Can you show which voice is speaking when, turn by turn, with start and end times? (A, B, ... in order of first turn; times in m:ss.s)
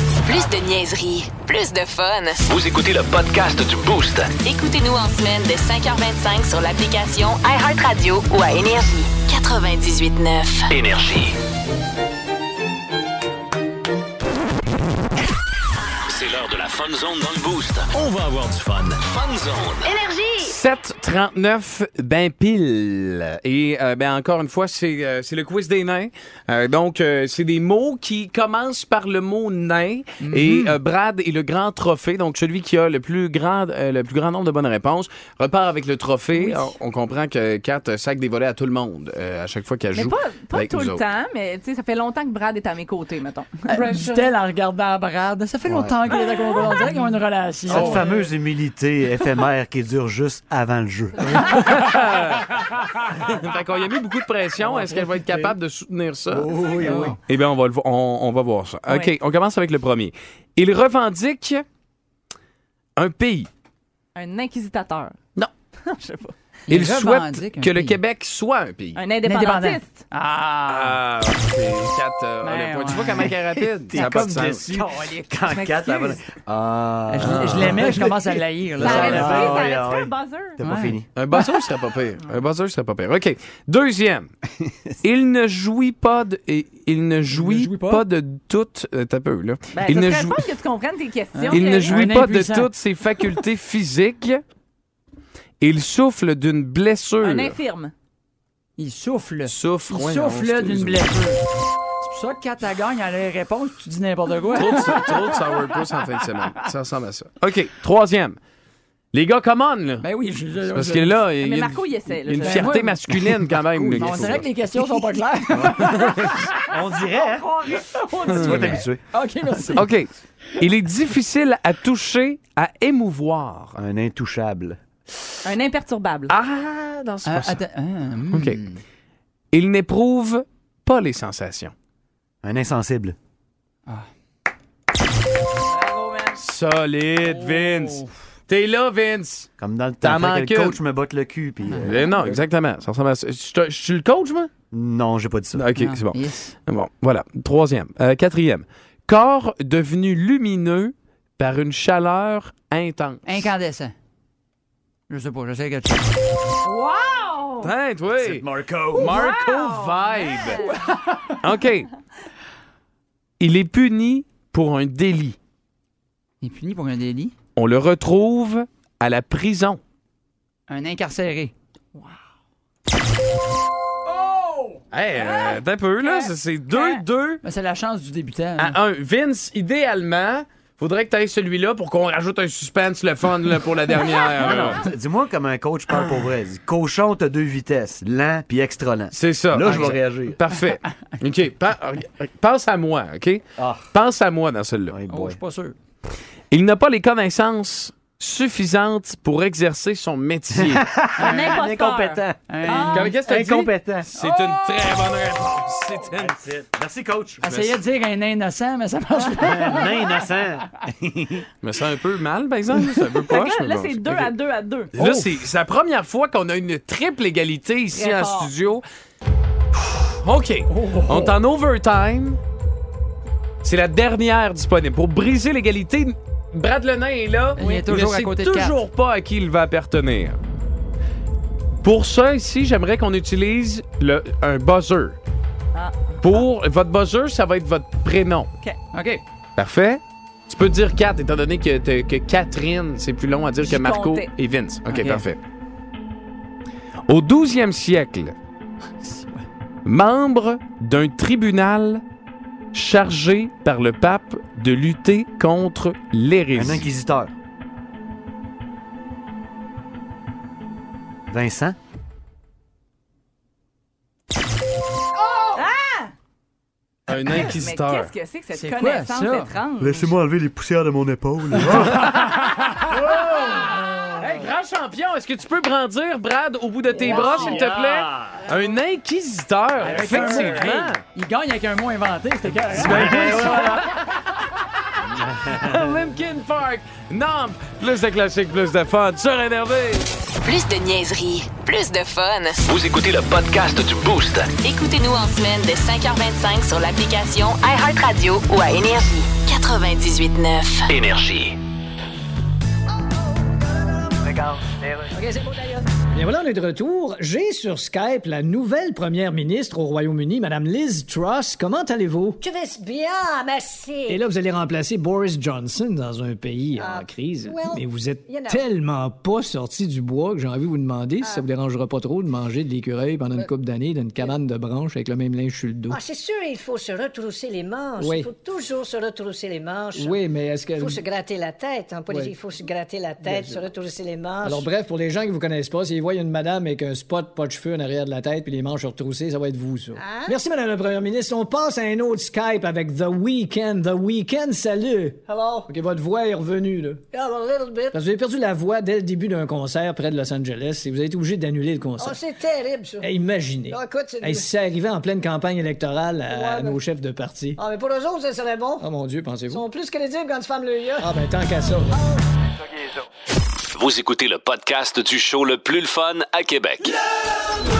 0:00.2-0:02.4 A
0:00.3-0:00.6 B
0:02.5-0:04.3 C
0:04.4-0:10.7 A
0:10.7-0:11.4 C
0:16.1-0:19.9 C
0:19.9-0:20.5 A
0:20.4-0:41.0 D
0:30.2-0:30.8 E
0:36.3-0:36.7 F
0:39.9-0:43.7 F
0:43.7-0:48.1 E
0:43.8-0:44.2 D
0:45.6-0:46.0 G
0:47.7-0:51.8 G
0:47.7-0:48.1 D
0:51.4-1:01.6 D
0:54.7-0:55.4 G
0:56.3-0:57.2 G
0:56.8-0:57.1 E
0:58.9-0:59.1 F
1:03.0-1:03.5 D
1:04.1-1:05.2 F
1:05.8-1:06.4 F
1:06.7-1:08.0 E
1:06.7-1:09.0 D
1:08.9-1:10.0 F
1:09.2-1:11.0 E
1:10.7-1:14.9 D
1:12.4-1:13.4 E
1:13.9-1:21.1 G
1:13.9-1:15.2 E
1:15.4-1:16.2 F
1:17.1-1:19.6 E
1:18.8-1:20.6 F
1:20.6-1:20.9 E
1:21.2-1:24.3 D
1:24.6-1:24.9 G
1:25.0-1:30.6 D
1:27.3-1:28.0 E
1:29.7-1:32.0 F
1:31.4-1:32.7 E
1:31.5-1:34.4 D
1:35.6-1:37.6 D
1:37.2-1:37.9 F
1:38.8-1:41.4 E
1:39.5-1:41.3 D
1:42.0-1:45.8 E
1:44.6-1:48.4 D
1:49.1-1:50.0 D
1:50.0-1:51.2 E
1:50.7-1:54.5 D
1:51.4-1:52.7 F
1:52.4-1:56.6 E
1:53.7-1:54.4 G
1:55.6-1:56.4 D
1:55.6-1:56.0 G
1:56.6-1:59.0 G
1:57.8-1:59.9 E
1:58.3-1:58.8 D
1:59.7-2:03.8 D
2:03.8-2:04.8 G
2:05.4-2:06.3 F
2:06.3-2:07.6 D
2:07.2-2:08.8 E
2:08.3-2:08.6 D
2:09.5-2:11.7 D
2:12.4-2:13.2 G
2:15.7-2:16.4 F
2:16.4-2:19.5 D
2:19.6-2:22.4 G
2:20.0-2:20.8 D
2:21.8-2:24.5 D
2:24.7-2:25.6 G
2:25.6-2:33.5 D
2:25.7-2:26.5 E
2:33.2-2:33.9 E
2:35.1-2:36.1 E
2:36.6-2:37.7 F
2:37.6-2:40.6 D
2:38.2-2:39.2 G
2:38.9-2:40.8 F
2:41.4-2:41.9 D
2:43.4-2:45.4 D
2:46.4-2:47.3 E
2:47.6-2:49.8 D
2:50.7-2:51.5 E
2:54.1-2:54.8 E
2:54.9-2:57.4 D
2:55.1-2:57.0 F
2:57.4-2:58.8 E
2:58.6-3:04.8 D
3:04.4-3:10.4 G
3:04.5-3:04.7 E
3:05.9-3:06.3 D
3:09.1-3:15.0 D
3:13.6-3:13.9 G
3:14.9-3:15.4 G
3:15.1-3:15.8 E
3:16.5-3:20.9 D
3:20.5-3:24.1 G
3:21.2-3:21.6 E
3:21.2-3:23.1 F
3:22.5-3:23.1 E
3:22.9-3:26.4 D
3:24.2-3:24.8 E
3:26.1-3:27.4 G
3:27.4-3:30.2 E
3:27.4-3:27.8 D
3:29.4-3:31.5 G
3:31.6-3:34.4 D
3:33.2-3:35.0 F
3:34.9-3:38.8 D
3:37.9-3:38.5 F
3:40.0-3:42.4 D
3:40.7-3:41.3 E
3:43.6-3:50.4 D
3:47.6-3:48.8 E
3:51.8-3:55.2 D
3:55.7-3:56.4 F
3:56.2-3:58.5 D
3:58.9-3:59.2 E
3:59.6-4:05.4 D
4:03.6-4:04.3 F
4:04.9-4:05.2 E
4:07.1-4:08.4 D
4:09.0-4:09.4 E
4:09.8-4:12.0 D
4:12.7-4:16.8 D
4:16.5-4:17.3 G
4:21.3-4:21.8 G
4:25.2-4:25.6 E
4:25.6-4:26.1 F
4:27.1-4:28.1 D
4:27.4-4:30.1 F
4:28.5-4:29.5 E
4:29.8-4:32.3 G
4:31.7-4:33.0 E
4:32.9-4:33.5 G
4:34.2-4:41.0 D
4:37.0-4:38.4 G
4:39.8-4:44.0 E
4:42.7-4:44.2 D
4:42.8-4:43.7 G
4:45.2-4:45.8 G
4:45.4-4:50.1 D
4:50.4-4:52.6 A
4:52.6-4:54.5 C
4:54.6-5:00.9 A
5:00.9-5:01.6 C
5:03.4-5:04.2 H
5:04.2-5:05.1 B
5:05.1-5:05.9 H
5:06.0-5:12.4 B
5:12.4-5:14.2 H
5:14.1-5:26.0 B
5:16.8-5:18.6 H
5:25.9-5:30.2 H
5:28.0-5:28.3 B
5:30.0-5:31.0 B
5:30.8-5:34.7 H
5:32.1-5:32.4 B
5:33.2-5:33.6 B
5:34.4-5:47.0 B
5:39.9-5:40.4 H
5:45.3-5:45.7 H
5:47.1-5:48.0 H
5:47.9-5:52.2 B
5:52.0-5:53.1 H
5:53.0-5:57.6 B
5:53.7-5:54.5 H
5:56.3-5:56.8 H
5:57.6-5:58.9 H
5:58.8-5:59.6 B
5:59.5-6:01.1 H
6:01.0-6:03.0 B
6:03.7-6:07.0 C